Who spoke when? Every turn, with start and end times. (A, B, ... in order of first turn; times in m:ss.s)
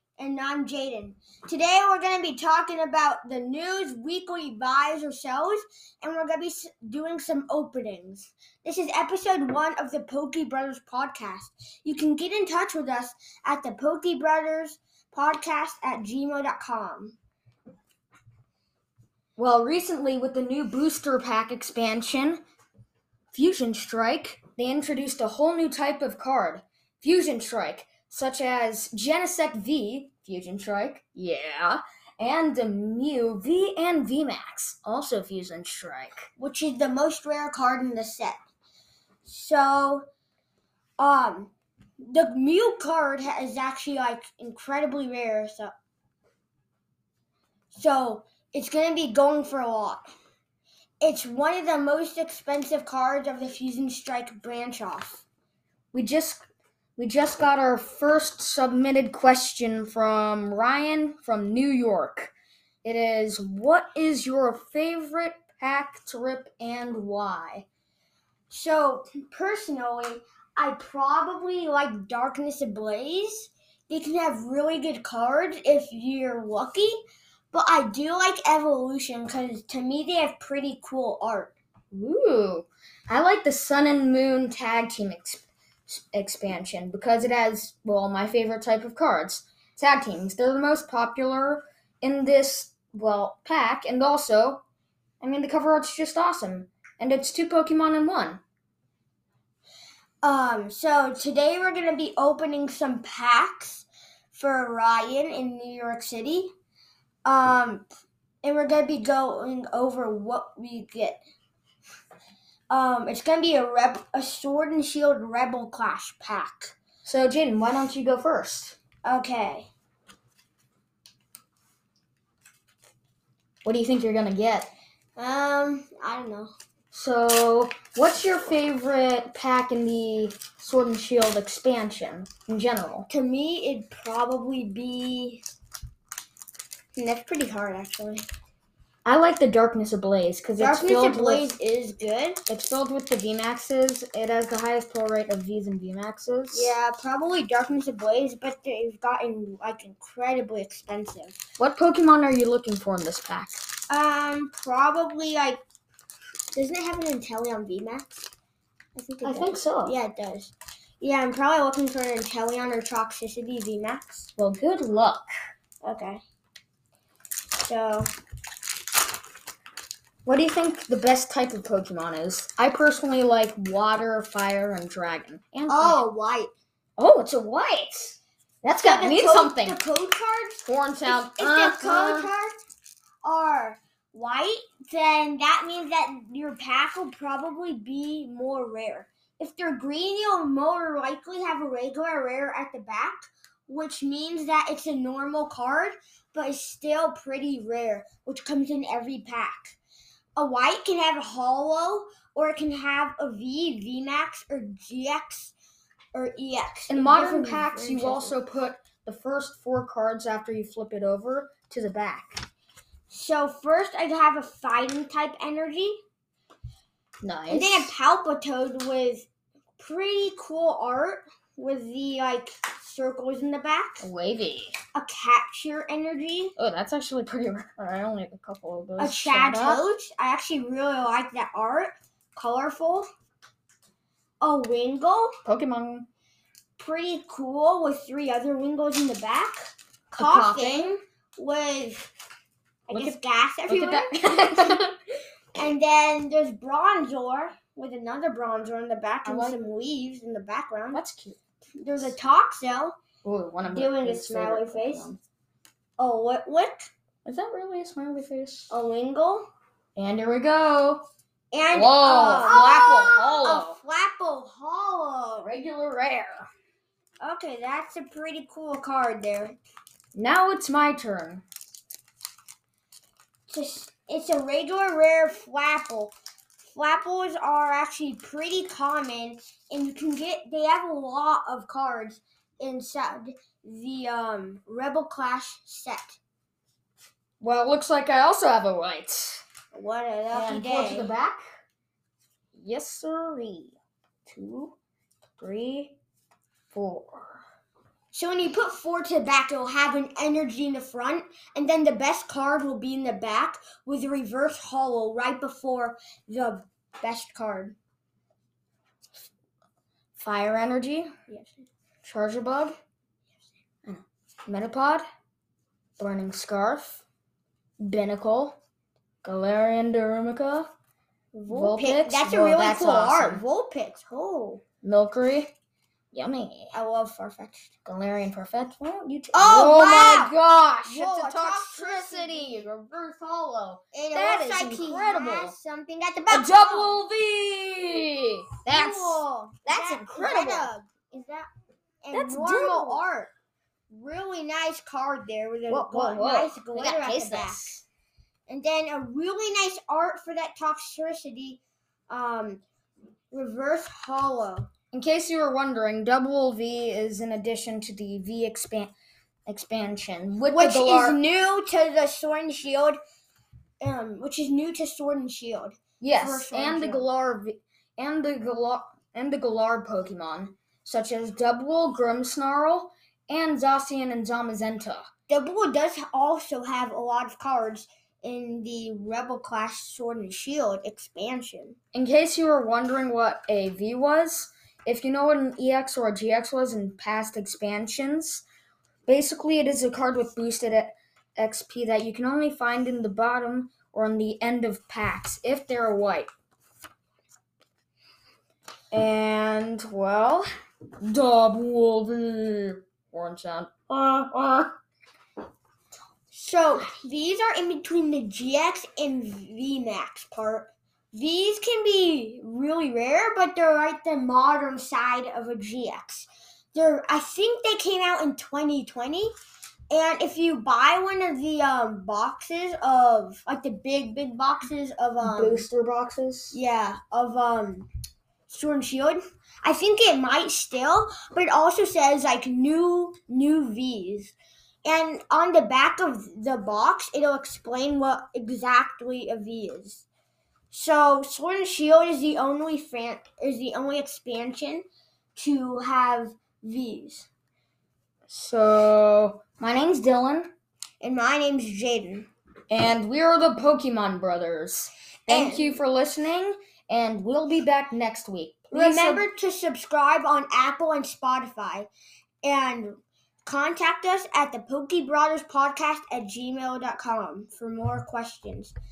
0:00.2-0:17.2 A
0:19.4-0:22.4 B
0:23.3-0:36.3 B
0:36.4-0:38.4 A
0:39.2-0:40.0 A
0:41.0-0:45.7 A
0:47.7-0:50.1 A
0:51.0-0:55.2 A
0:55.9-0:56.4 B
0:57.0-1:02.3 B
1:02.8-1:07.6 B
1:08.5-1:17.0 A
1:17.5-1:21.5 A
1:21.9-1:34.6 B
1:35.2-1:38.4 B
1:40.2-1:46.5 A
1:47.2-1:47.8 A
1:48.4-1:51.2 A
1:52.7-1:56.7 A
1:57.0-1:58.8 B
1:59.0-1:59.7 A
2:03.6-2:04.7 B
2:05.2-2:06.5 A
2:06.9-2:13.1 B
2:13.1-2:15.4 A
2:16.9-2:18.2 A
2:19.0-2:21.5 B
2:20.6-2:22.4 A
2:22.5-2:26.7 B
2:26.5-2:31.4 A
2:31.6-2:33.6 B
2:33.9-2:35.6 A
2:36.5-2:38.3 A
2:39.0-2:44.3 A
2:39.2-2:39.9 B
2:44.4-2:45.3 B
2:45.8-2:46.2 A
2:47.6-2:48.1 A
2:50.2-2:56.0 B
2:55.7-2:56.5 A
2:57.0-2:59.8 B
2:58.8-3:02.5 A
3:00.6-3:02.3 B
3:03.2-3:19.8 A
3:20.4-3:25.5 A
3:26.1-3:28.4 A
3:26.9-3:32.4 B
3:33.1-3:36.0 A
3:37.2-3:37.9 B
3:37.5-3:39.3 A
3:39.8-3:44.1 A
3:44.0-3:44.7 B
3:44.9-3:46.5 A
3:46.6-3:49.8 B
3:49.0-3:53.1 A
3:54.4-3:55.3 A
3:55.4-3:56.1 B
3:56.8-4:02.1 A
4:00.1-4:00.9 B
4:02.9-4:04.8 A
4:02.9-4:04.9 B
4:05.5-4:11.0 A
4:09.2-4:09.6 B
4:10.9-4:11.4 B
4:11.8-4:13.0 A
4:13.2-4:15.2 B
4:13.7-4:15.1 A
4:16.0-4:16.9 A
4:17.2-4:18.7 B
4:18.7-4:19.5 A
4:20.0-4:21.0 B
4:21.5-4:25.5 A
4:21.7-4:23.8 B
4:25.4-4:26.5 B
4:27.2-4:29.6 A
4:30.1-4:31.4 B
4:33.5-4:46.2 A
4:47.4-4:49.4 B
4:49.7-4:51.1 A
4:50.3-4:51.4 B
4:52.5-4:54.8 B
4:55.4-4:56.0 B
4:56.7-4:57.4 B
4:58.1-5:07.8 A
5:10.2-5:11.1 B
5:11.3-5:11.6 A
5:12.0-5:12.8 B
5:13.8-5:15.0 B
5:16.0-5:17.0 B
5:17.8-5:18.6 B
5:19.2-5:20.7 B
5:21.3-5:24.6 A
5:21.5-5:23.4 B
5:24.8-5:25.5 B
5:26.1-5:26.7 B
5:26.7-5:27.7 A
5:27.8-5:35.5 B
5:29.3-5:32.6 A
5:33.9-5:37.0 A
5:36.3-5:40.7 B
5:38.7-5:41.5 A
5:42.0-5:43.3 A
5:42.1-5:43.0 B
5:43.9-5:47.6 A
5:45.7-5:47.8 B
5:48.5-5:52.6 A
5:53.3-5:54.7 A
5:54.9-5:58.9 B
5:59.5-6:01.2 B
6:00.5-6:03.0 A
6:03.8-6:07.1 A
6:06.0-6:15.1 B
6:15.3-6:21.8 A
6:21.9-6:28.4 B
6:29.0-6:36.3 B
6:38.9-6:40.5 B
6:41.0-6:44.7 B
6:46.3-6:59.3 A
6:59.9-7:05.7 A
7:05.2-7:06.6 B
7:06.5-7:07.9 A
7:08.5-7:20.0 A
7:20.7-7:27.3 A
7:28.3-7:30.5 B
7:31.0-7:32.3 A
7:32.7-7:39.3 B
7:35.3-7:35.8 A
7:38.7-7:41.9 A
7:42.4-7:48.7 A